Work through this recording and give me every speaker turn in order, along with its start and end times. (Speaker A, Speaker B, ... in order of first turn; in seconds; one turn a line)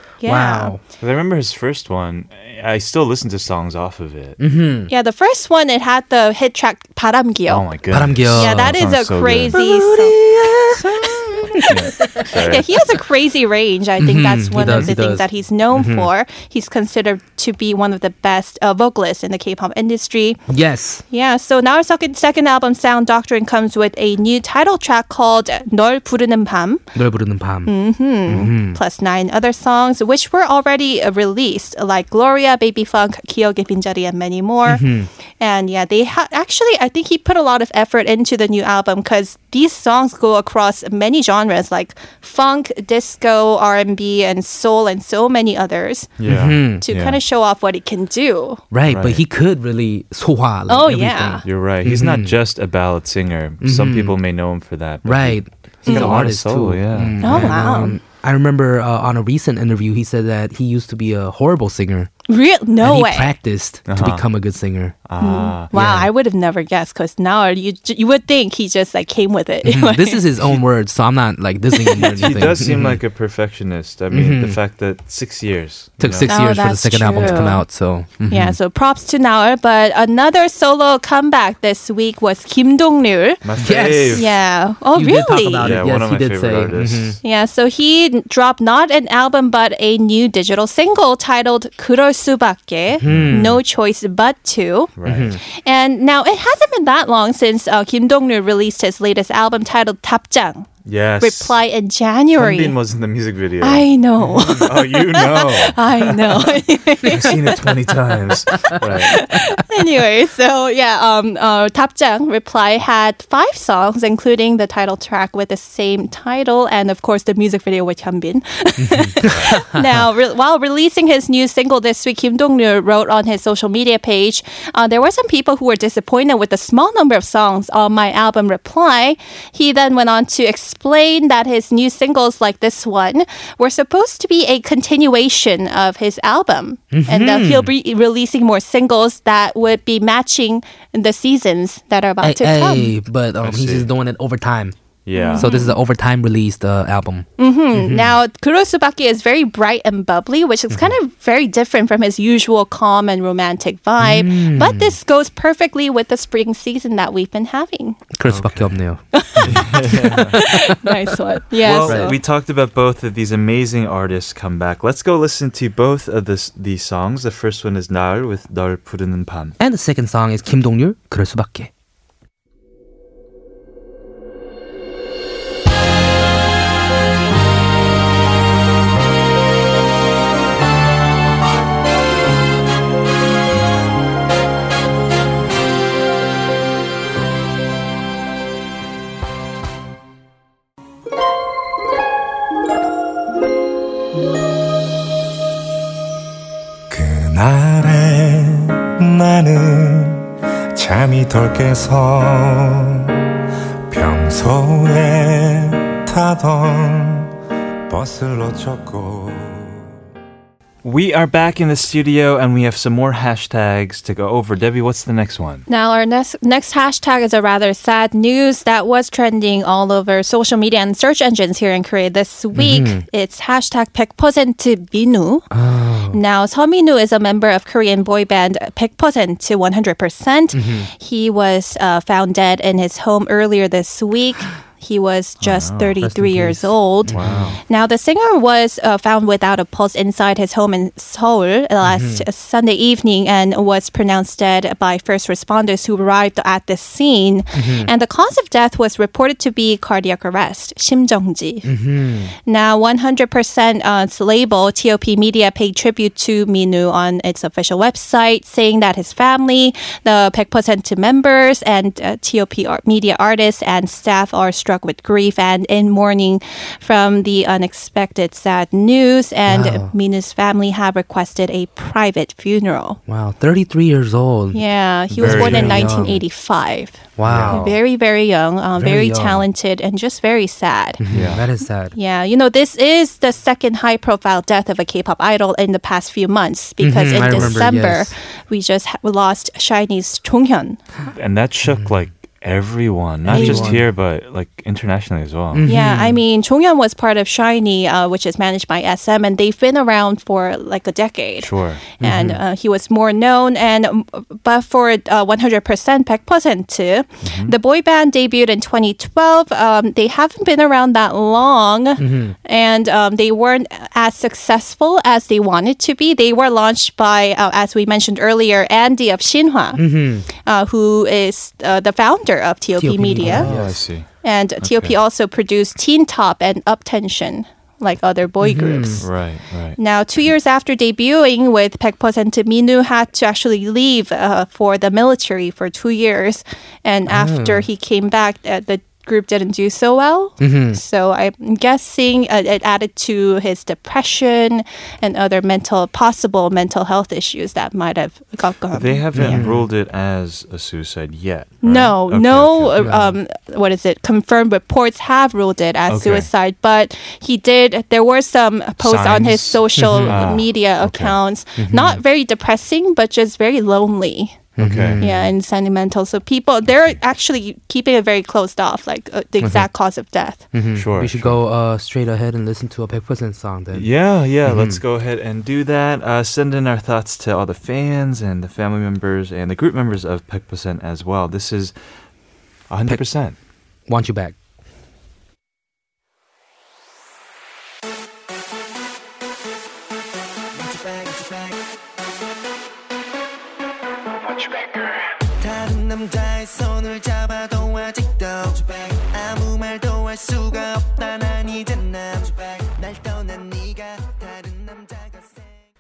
Speaker A: 0.2-0.8
Speaker B: 0.2-0.8
Speaker C: 1.0-4.4
Speaker B: 4.4-4.9
Speaker A: 4.9-7.7
Speaker C: 7.5-9.6
Speaker B: 7.9-8.8
Speaker A: 8.3-10.2
Speaker B: 9.5-12.3
Speaker A: 10.8-20.4
Speaker C: 11.7-12.7
Speaker B: 14.0-16.1
Speaker B: 20.5-21.0
Speaker A: 21.1-26.9
Speaker B: 26.9-27.7
Speaker A: 27.7-34.9
Speaker B: 28.3-28.8
Speaker B: 34.7-35.1
Speaker A: 35.4-46.2
Speaker C: 46.2-47.2
Speaker B: 46.3-46.8
Speaker A: 46.8-48.6
Speaker B: 48.7-52.4
Speaker C: 48.9-49.2
Speaker A: 50.7-51.4
Speaker C: 51.4-57.5
Speaker B: 53.6-54.2
Speaker B: 55.0-62.1
Speaker A: 55.9-56.2
Speaker A: 57.2-58.0
Speaker A: 62.3-63.3
Speaker B: 62.8-65.0
Speaker C: 63.9-64.2
Speaker C: 65.0-65.7
Speaker A: 65.2-70.2
Speaker B: 65.7-66.1
Speaker B: 69.7-73.0
Speaker A: 71.8-72.3
Speaker C: 72.2-76.3
Speaker B: 74.1-74.6
Speaker B: 76.0-78.6
Speaker A: 76.3-77.7
Speaker A: 78.3-83.4
Speaker C: 83.4-84.3
Speaker B: 83.6-84.3
Speaker A: 84.1-85.7
Speaker B: 85.0-87.2
Speaker C: 85.6-87.2
Speaker A: 87.2-95.0
Speaker B: 93.0-93.6
Speaker C: 93.0-93.5
Speaker C: 95.0-95.4
Speaker B: 95.0-95.4
Speaker A: 95.5-102.8
Speaker C: 100.9-101.6
Speaker C: 102.3-106.5
Speaker A: 103.6-107.7
Speaker C: 107.0-109.2
Speaker A: 108.7-142.9
Speaker B: 118.8-119.8
Speaker C: 119.2-119.6
Speaker B: 136.9-137.7
Speaker B: 142.2-144.8
Speaker C: 143.4-143.9
Speaker C: 145.1-145.5
Speaker A: 145.2-145.8
Speaker B: 145.4-148.1
Speaker A: 147.4-158.1
Speaker B: 154.0-154.9
Speaker B: 158.2-160.8
Speaker C: 158.3-158.8
Speaker A: 159.1-162.2
Speaker C: 159.4-160.4
Speaker C: 161.6-169.6
Speaker B: 161.8-162.1
Speaker B: 169.6-171.7
Speaker D: 196.9-203.3
Speaker D: 203.9-207.4
Speaker D: 207.9-209.9
Speaker C: 210.8-215.7
Speaker A: 215.7-225.5
Speaker B: 222.6-223.0
Speaker B: 225.5-226.2
Speaker A: 226.1-251.7
Speaker B: 230.5-230.9
Speaker C: 235.4-236.0
Speaker B: 236.0-237.6
Speaker C: 237.1-237.6
Speaker B: 241.8-242.3
Speaker B: 247.6-247.9
Speaker B: 251.7-252.3
Speaker A: 252.5-273.0
Speaker B: 269.5-269.9
Speaker B: 273.1-276.2
Speaker A: 274.5-281.0
Speaker C: 275.2-275.9
Speaker B: 277.2-277.7
Speaker C: 277.2-277.7
Speaker B: 278.8-279.4
Speaker B: 281.0-281.9
Speaker C: 281.1-281.4
Speaker A: 281.9-290.8
Speaker B: 286.8-288.1
Speaker C: 287.2-287.7
Speaker C: 291.1-295.7
Speaker B: 293.3-293.8
Speaker A: 293.3-293.8
Speaker B: 295.5-296.2
Speaker A: 295.7-319.8
Speaker C: 301.4-302.0
Speaker B: 302.0-302.4
Speaker C: 307.2-307.6
Speaker B: 312.0-312.4
Speaker B: 319.8-320.3
Speaker A: 320.4-323.5
Speaker B: 322.8-323.8
Speaker C: 323.2-324.1
Speaker A: 324.2-329.1
Speaker C: 324.6-325.0
Speaker B: 328.4-329.0
Speaker C: 329.0-329.8
Speaker A: 329.8-349.4
Speaker B: 337.1-337.6
Speaker B: 340.4-340.8
Speaker C: 348.7-352.8
Speaker B: 349.1-349.7
Speaker A: 351.6-364.5
Speaker B: 352.8-353.2
Speaker C: 355.9-356.3
Speaker C: 358.8-361.2
Speaker B: 359.8-360.2
Speaker B: 361.6-362.0
Speaker B: 364.6-365.3
Speaker C: 364.6-365.0
Speaker A: 365.0-370.5
Speaker B: 369.4-369.7
Speaker B: 370.5-373.9
Speaker C: 370.8-371.4
Speaker C: 373.7-381.8
Speaker B: 374.5-374.8
Speaker C: 382.7-383.4
Speaker B: 383.9-384.4
Speaker E: 390.7-391.5
Speaker E: 395.4-405.3